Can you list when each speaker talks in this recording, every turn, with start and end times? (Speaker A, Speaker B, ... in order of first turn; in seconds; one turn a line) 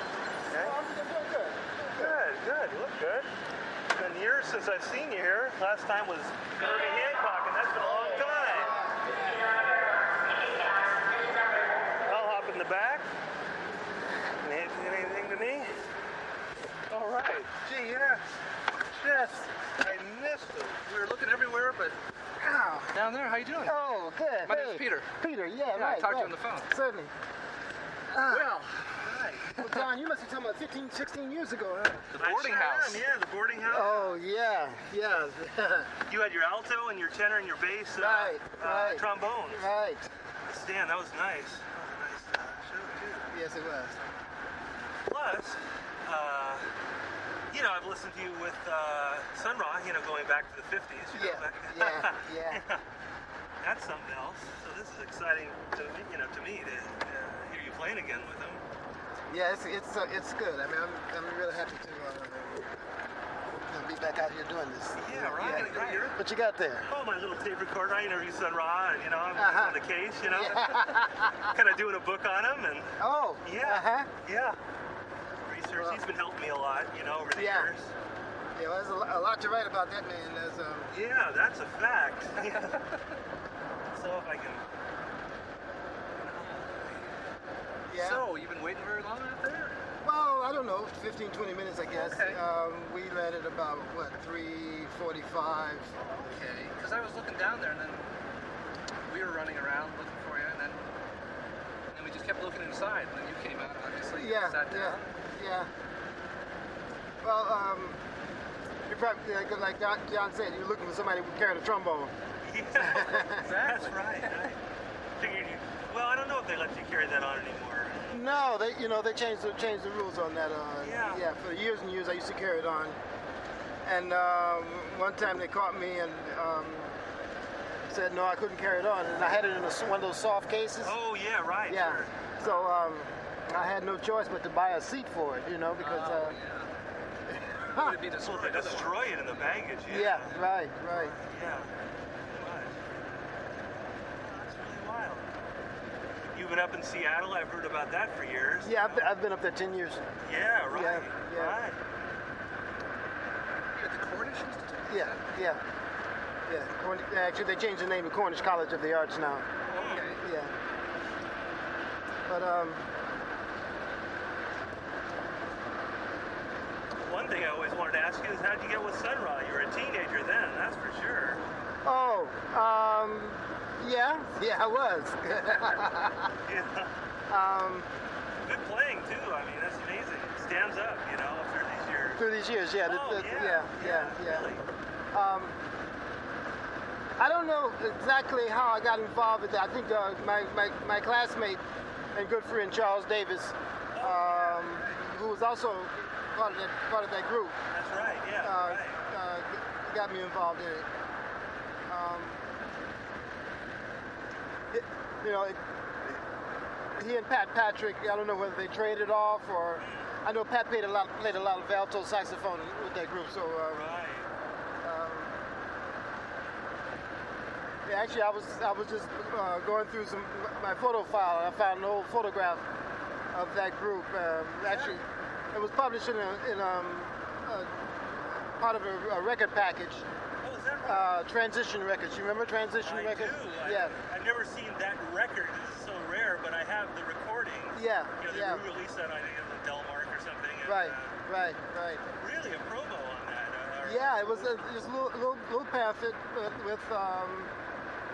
Speaker A: 0.5-0.8
Speaker B: 0.5-2.2
Speaker A: 2.0-3.3
Speaker A: 3.9-8.7
Speaker B: 7.8-9.6
Speaker A: 12.1-13.1
Speaker A: 14.4-15.8
Speaker A: 16.9-18.2
Speaker A: 18.9-20.8
Speaker C: 20.9-22.0
Speaker B: 22.4-23.0
Speaker C: 22.9-23.8
Speaker B: 23.6-27.1
Speaker C: 24.4-25.1
Speaker C: 25.7-26.7
Speaker B: 28.1-28.6
Speaker C: 28.2-29.0
Speaker A: 28.9-29.5
Speaker B: 29.5-32.1
Speaker C: 29.6-29.9
Speaker C: 32.1-33.0
Speaker A: 32.2-34.0
Speaker B: 33.6-35.9
Speaker A: 36.1-39.6
Speaker B: 37.9-40.1
Speaker A: 40.5-43.3
Speaker B: 43.3-44.0
Speaker A: 45.0-46.7
Speaker A: 47.5-52.8
Speaker B: 51.1-52.6
Speaker A: 53.6-58.6
Speaker B: 59.3-62.8
Speaker B: 63.7-66.9
Speaker A: 65.0-66.2
Speaker A: 66.9-74.6
Speaker B: 69.3-71.5
Speaker B: 73.0-74.1
Speaker A: 75.3-77.9
Speaker B: 75.7-76.0
Speaker B: 77.3-77.7
Speaker B: 78.5-80.9
Speaker A: 80.9-82.8
Speaker C: 82.7-83.2
Speaker A: 83.9-84.7
Speaker A: 86.1-87.2
Speaker B: 87.9-88.3
Speaker C: 87.9-89.9
Speaker B: 90.0-96.3
Speaker C: 91.9-92.4
Speaker C: 96.2-98.2
Speaker C: 99.1-100.9
Speaker C: 101.9-105.0
Speaker B: 104.1-105.7
Speaker B: 107.2-108.0
Speaker B: 108.9-112.1
Speaker A: 112.4-114.6
Speaker B: 112.8-113.4
Speaker C: 112.8-114.4
Speaker A: 115.2-118.3
Speaker B: 118.1-123.0
Speaker A: 120.8-121.2
Speaker B: 123.8-127.1
Speaker B: 127.9-131.0
Speaker A: 130.8-132.8
Speaker B: 131.7-136.3
Speaker C: 135.8-136.7
Speaker B: 137.3-138.0
Speaker C: 137.6-139.2
Speaker A: 138.2-140.4
Speaker B: 139.9-141.2
Speaker A: 140.9-141.7
Speaker A: 142.2-143.0
Speaker A: 143.5-145.4
Speaker A: 146.3-149.1
Speaker B: 148.6-150.1
Speaker A: 150.2-151.8
Speaker B: 150.7-151.6
Speaker C: 153.6-155.3
Speaker B: 154.9-155.6
Speaker B: 156.5-160.5
Speaker C: 159.6-160.2
Speaker A: 159.7-160.1
Speaker B: 162.3-162.9
Speaker A: 167.1-172.3
Speaker B: 171.8-176.3
Speaker A: 175.4-175.8
Speaker A: 176.4-177.0
Speaker B: 177.3-177.9
Speaker A: 178.4-182.2
Speaker B: 182.2-184.5
Speaker A: 182.8-184.6
Speaker B: 185.1-185.6
Speaker B: 187.2-197.6
Speaker A: 193.9-195.0
Speaker A: 197.7-199.0
Speaker B: 198.4-200.9
Speaker B: 201.9-202.5
Speaker B: 204.7-206.2
Speaker B: 206.9-213.9
Speaker A: 209.8-210.1
Speaker A: 213.7-214.3
Speaker B: 214.8-215.4
Speaker B: 217.8-222.7
Speaker B: 223.3-230.1
Speaker A: 224.6-225.0
Speaker A: 230.4-231.1
Speaker B: 230.8-234.0
Speaker A: 232.8-241.2
Speaker B: 237.7-238.7
Speaker B: 240.6-242.0
Speaker A: 242.2-244.7
Speaker B: 243.8-247.5